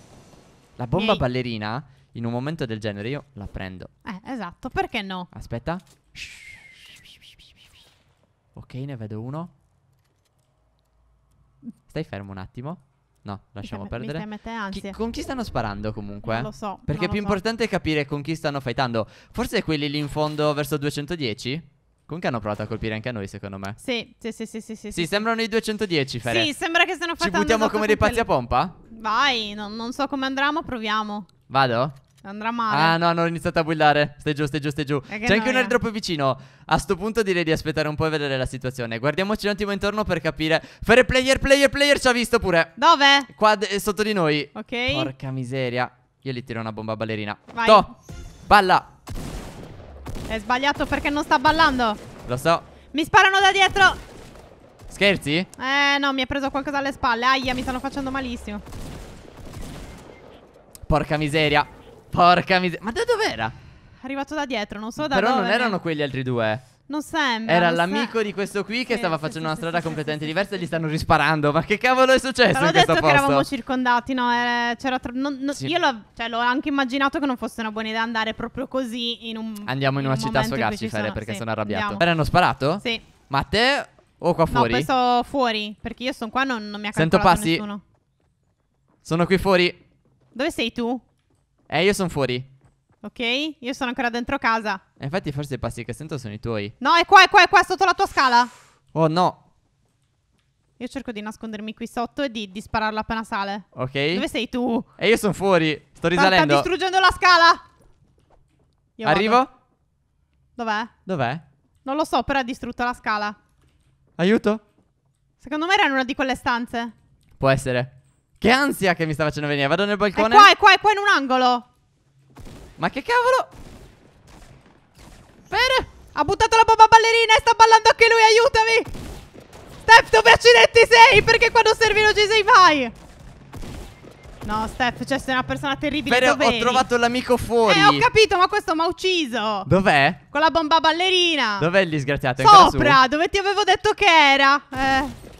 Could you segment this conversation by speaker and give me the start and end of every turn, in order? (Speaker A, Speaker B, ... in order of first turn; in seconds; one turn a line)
Speaker A: 0.8-3.9
Speaker B: 0.9-1.2
Speaker B: 4.0-5.3
Speaker A: 5.3-7.1
Speaker A: 8.5-9.5
Speaker A: 11.9-23.8
Speaker B: 13.6-14.9
Speaker B: 16.2-17.4
Speaker B: 23.8-25.3
Speaker A: 24.9-26.5
Speaker B: 26.2-28.3
Speaker A: 27.2-28.7
Speaker B: 28.9-31.3
Speaker A: 31.5-32.0
Speaker B: 32.2-33.0
Speaker A: 32.7-42.7
Speaker B: 35.1-35.8
Speaker B: 42.8-43.3
Speaker A: 43.3-47.9
Speaker B: 44.5-45.1
Speaker B: 47.5-47.9
Speaker A: 48.5-48.9
Speaker B: 50.3-52.0
Speaker A: 52.2-52.6
Speaker B: 52.9-54.0
Speaker A: 54.9-55.5
Speaker B: 55.6-58.6
Speaker A: 60.9-63.5
Speaker B: 64.0-65.8
Speaker A: 65.0-66.6
Speaker B: 66.9-68.1
Speaker A: 67.5-73.5
Speaker B: 68.9-70.4
Speaker B: 72.5-82.0
Speaker A: 79.7-84.9
Speaker B: 84.5-87.8
Speaker A: 86.9-87.6
Speaker A: 89.0-89.8
Speaker B: 90.3-91.0
Speaker A: 91.7-92.5
Speaker B: 93.0-94.8
Speaker A: 95.0-96.7
Speaker B: 96.8-98.5
Speaker A: 98.9-99.4
Speaker B: 100.8-104.9
Speaker A: 103.7-104.2
Speaker A: 105.0-106.7
Speaker B: 106.1-107.6
Speaker B: 109.0-109.4
Speaker A: 109.0-109.5
Speaker B: 110.6-110.9
Speaker A: 111.0-111.4
Speaker B: 111.8-113.3
Speaker A: 114.2-114.6
Speaker B: 115.4-116.9
Speaker A: 117.4-120.5
Speaker B: 120.2-121.6
Speaker A: 122.8-123.5
Speaker A: 125.5-125.9
Speaker B: 126.1-128.9
Speaker B: 129.8-132.9
Speaker B: 134.4-136.9
Speaker A: 136.1-138.1
Speaker B: 137.6-139.7
Speaker A: 139.7-140.2
Speaker B: 140.3-141.7
Speaker A: 141.6-143.0
Speaker B: 142.4-145.2